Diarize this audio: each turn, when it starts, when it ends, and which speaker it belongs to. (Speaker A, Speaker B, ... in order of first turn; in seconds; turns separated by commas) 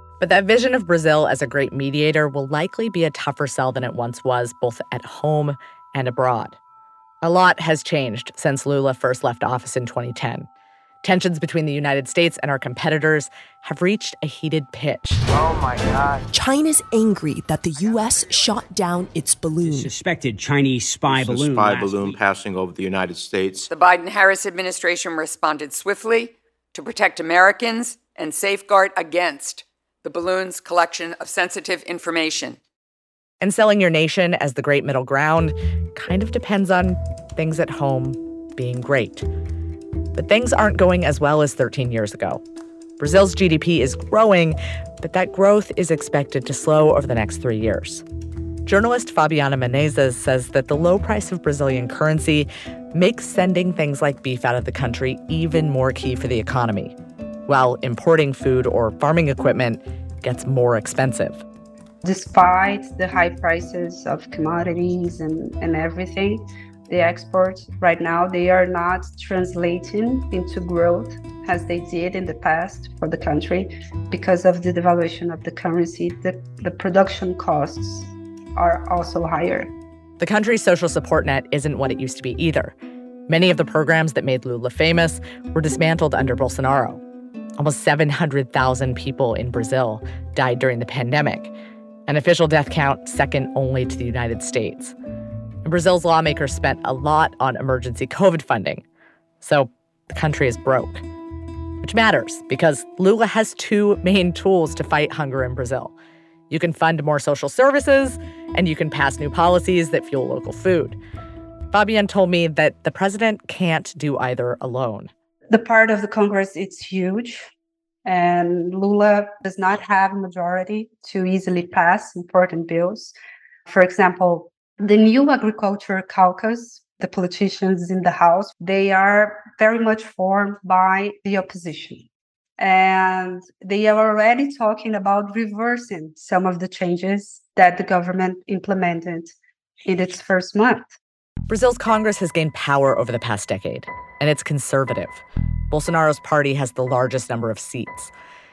Speaker A: 0.2-6.6, Speaker A: 7.2-10.5, Speaker A: 11.0-15.2, Speaker B: 16.3-19.9, Speaker C: 19.6-22.2, Speaker D: 21.1-23.7, Speaker E: 23.7-32.6, Speaker A: 33.4-39.2, Speaker A: 40.1-42.4, Speaker A: 43.0-48.0, Speaker A: 48.6-57.0, Speaker A: 57.5-61.4, Speaker F: 62.0-79.7, Speaker A: 80.2-82.7, Speaker A: 83.3-87.0, Speaker A: 87.6-91.5, Speaker A: 92.1-94.9, Speaker A: 95.6-98.8, Speaker A: 99.4-101.0, Speaker A: 101.8-105.9, Speaker A: 106.5-111.0, Speaker A: 111.7-115.1, Speaker F: 115.5-117.5, Speaker F: 118.0-123.2, Speaker F: 123.7-132.1, Speaker F: 132.6-139.3, Speaker F: 139.8-140.9, Speaker A: 141.5-148.1